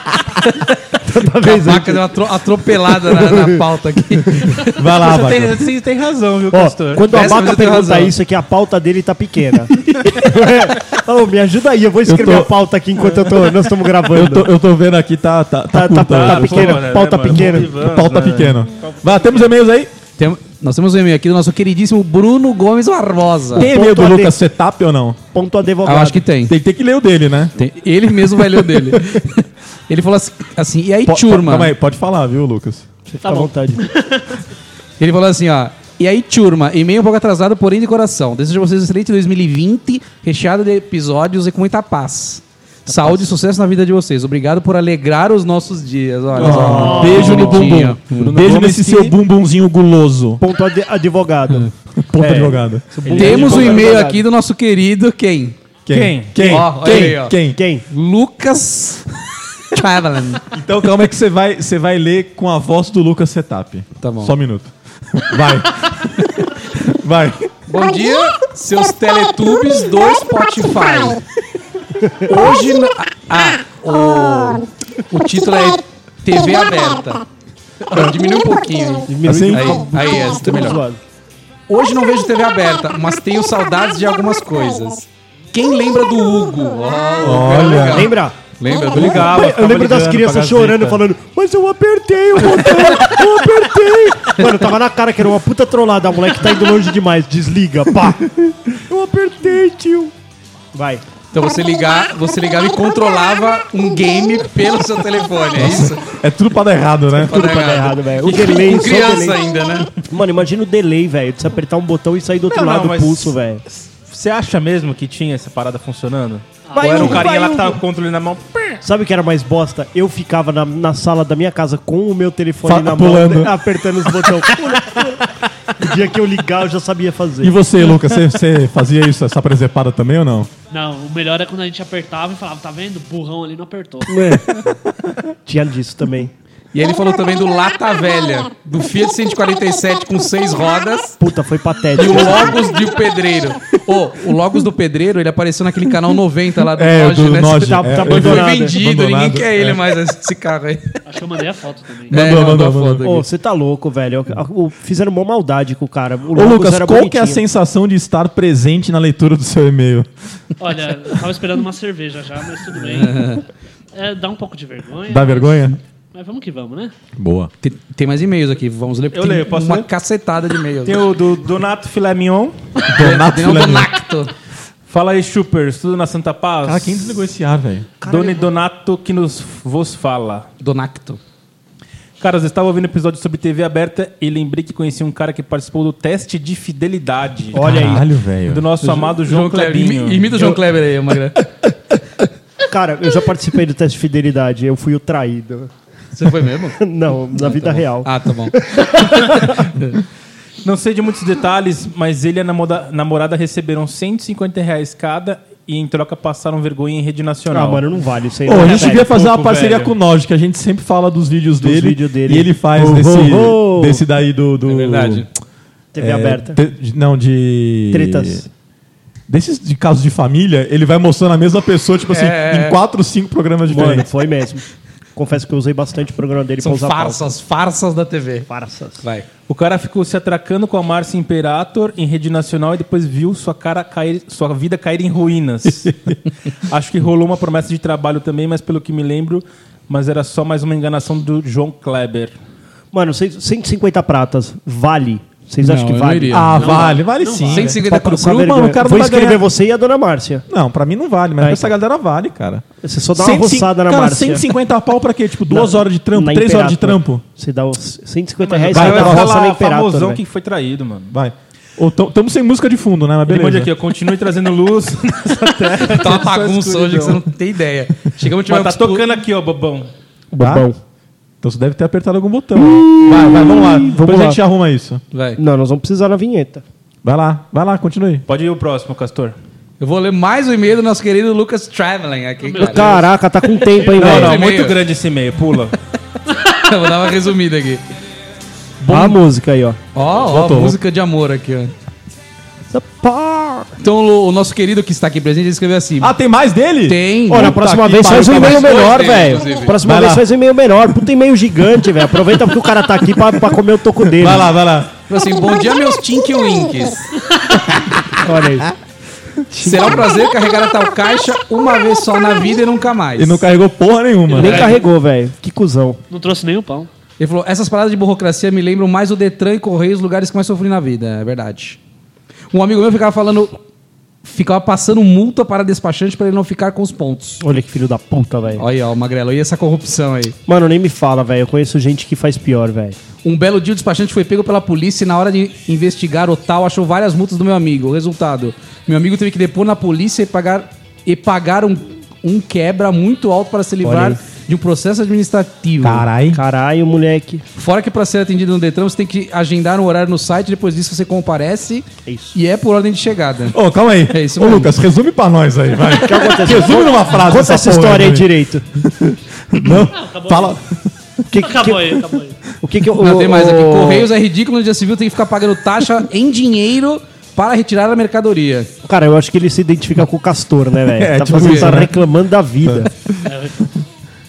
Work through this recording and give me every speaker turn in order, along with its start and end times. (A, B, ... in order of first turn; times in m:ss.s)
0:00.4-0:00.7 A
0:01.0-0:02.0 B
0:01.4-0:04.7 A
0:03.0-0:03.6 B
0:04.7-0:05.6 C
0:05.0-0:07.3 D
0:06.5-0:14.5 B
0:07.1-0:08.1 A
0:12.0-0:12.5 C
0:14.1-0:16.8 C
0:15.7-0:17.7 B
0:16.1-0:18.6 D
0:17.8-0:19.9 C
0:18.8-0:19.4 B
0:20.2-0:23.7 A
0:23.5-0:25.2 C
0:23.6-0:24.3 B
0:25.3-0:26.2 B
0:25.8-0:26.5 A
0:26.5-0:27.5 C
0:27.6-0:31.7 A
0:28.4-0:29.2 C
0:31.1-0:32.8 C
0:33.1-0:33.9 B
0:33.8-0:34.3 E
0:35.0-0:48.4 A
0:42.9-0:43.2 B
0:46.4-0:50.4 C
0:46.4-0:47.8 B
0:46.9-0:47.3 E
0:48.0-0:49.1 D
0:50.4-0:51.7 B
0:52.1-0:52.8 C
0:52.2-0:54.2 D
0:53.0-0:54.2 B
0:53.1-0:55.6 A
0:55.8-0:57.6 C
0:55.9-0:56.6 D
0:56.4-0:57.4 A
0:56.8-0:57.8 B
0:57.9-0:59.1 A
0:59.7-1:00.5 A
1:00.5-1:07.5 C
1:04.0-1:04.4 A
1:07.7-1:11.2 A
1:12.2-1:17.2 A
1:17.8-1:20.8 A
1:19.1-1:21.0 B
1:19.2-1:19.8 C
1:21.7-1:29.2 A
1:27.2-1:28.1 C
1:27.9-1:28.4 B
1:28.9-1:31.0 D
1:28.9-1:40.1 B
1:40.7-1:41.0 B
1:41.3-1:46.0 A
1:45.6-1:47.5 C
1:47.2-1:49.9 A
1:47.3-1:49.4 B
1:50.0-1:53.6 B
1:52.5-1:58.8 D
1:56.6-1:57.1 E
1:56.7-1:57.8 B
1:58.8-2:07.5 B
2:02.6-2:03.6 C
2:07.4-2:10.5 C
2:10.7-2:14.1 E
2:14.1-2:14.5 B
2:15.4-2:16.3 B
2:16.7-2:21.2 A
2:21.2-2:22.6 B
2:22.0-2:31.0 A
2:26.7-2:29.8 C
2:27.6-2:28.7 B
2:31.0-2:32.2 E
2:32.1-2:33.0 C
2:32.1-2:33.2 A
2:33.0-2:37.4 B
2:36.3-2:40.1 C
2:40.6-2:43.4 E
2:42.8-2:43.4 A
2:43.9-2:46.9 E
2:45.1-2:45.8 C
2:47.2-2:47.5 C
2:47.6-2:51.1 A
2:49.1-2:49.9 D
2:50.8-2:52.6 D
2:52.8-2:54.3 A
2:52.9-2:53.9 C
2:54.9-2:57.0 D
2:56.6-2:57.9 C
2:58.0-2:58.5 B
2:58.0-3:00.5 D
3:00.6-3:01.2 A
3:02.2-3:10.6 D
3:07.5-3:08.0 B
3:07.6-3:08.6 C
3:09.1-3:11.4 A
3:12.7-3:15.7 B
3:16.1-3:16.8 A
3:16.8-3:19.7 B
3:18.0-3:18.6 A
3:20.6-3:27.8 D
3:27.5-3:29.1 B
3:28.5-3:35.2 C
3:28.5-3:29.9 D
3:31.6-3:34.0 B
3:34.7-3:35.2 A
3:34.8-3:35.2 D
3:35.9-3:36.6 B
3:36.0-3:38.4 C
3:37.9-3:38.5 B
3:39.3-3:44.1 C
3:42.1-3:42.8 A
3:43.7-3:44.6 B
3:45.2-3:47.2 B
3:46.6-3:48.5 A
3:48.5-3:49.0 B
3:49.0-3:49.3 A
3:49.5-3:55.9 D
3:56.7-4:02.3 D
4:02.9-4:06.8 B
4:05.6-4:07.0 A
4:06.3-4:09.4 C
4:06.5-4:07.7 E
4:07.5-4:08.3 A
4:07.7-4:10.4 B
4:10.5-4:12.6 C
4:11.4-4:11.7 B
4:12.8-4:14.5 B
4:13.1-4:17.2 C
4:15.5-4:20.2 B
4:18.4-4:21.1 D
4:18.7-4:19.4 C
4:21.1-4:23.7 C
4:23.3-4:27.2 D
4:25.8-4:29.0 A
4:28.4-4:29.9 D
4:30.3-4:30.8 B
4:30.4-4:30.7 C
4:31.4-4:35.0 C
4:32.6-4:34.4 B
4:35.1-4:35.4 A
4:35.4-4:36.6 B
4:37.0-4:38.2 C
4:38.3-4:39.4 D
4:39.8-4:43.0 A
4:42.5-4:43.0 E
4:42.6-4:44.4 B
4:43.8-4:45.8 D
4:44.0-4:44.8 A
4:46.5-4:47.8 A
4:48.8-4:49.2 C
4:48.9-4:49.8 B
4:49.9-4:51.7 A
4:50.3-4:50.8 C
4:52.7-4:53.7 B
4:53.8-4:56.2 A
4:56.0-4:58.9 C
4:56.8-4:57.6 A
4:57.3-5:04.5 B
4:58.1-4:59.7 A
4:59.8-5:00.3 C
5:04.1-5:04.9 C
5:05.1-5:07.1 A
5:08.2-5:08.7 B
5:09.5-5:10.0 B
5:09.6-5:13.4 A
5:13.2-5:14.7 C
5:14.3-5:16.0 B
5:14.4-5:14.8 A
5:16.1-5:16.9 E
5:17.2-5:21.8 A
5:22.5-5:23.6 A
5:24.2-5:27.4 A
5:27.4-5:28.6 B
5:28.6-5:30.3 A
5:30.5-5:33.0 B
5:33.2-5:46.0 A
5:43.8-5:44.2 B
5:45.8-5:46.4 C
5:46.3-5:47.4 B
5:47.6-5:53.6 A
5:52.0-5:52.3 B
5:53.5-5:58.3 C
5:54.1-5:54.7 A
5:55.9-5:58.6 B
5:58.8-6:00.6 C
5:59.9-6:00.6 E
6:01.3-6:04.1 B
6:01.4-6:02.4 E
6:03.0-6:08.7 A
6:08.8-6:12.9 B
6:11.0-6:12.0 C
6:11.3-6:11.7 A
6:12.6-6:13.3 C
6:13.3-6:13.6 E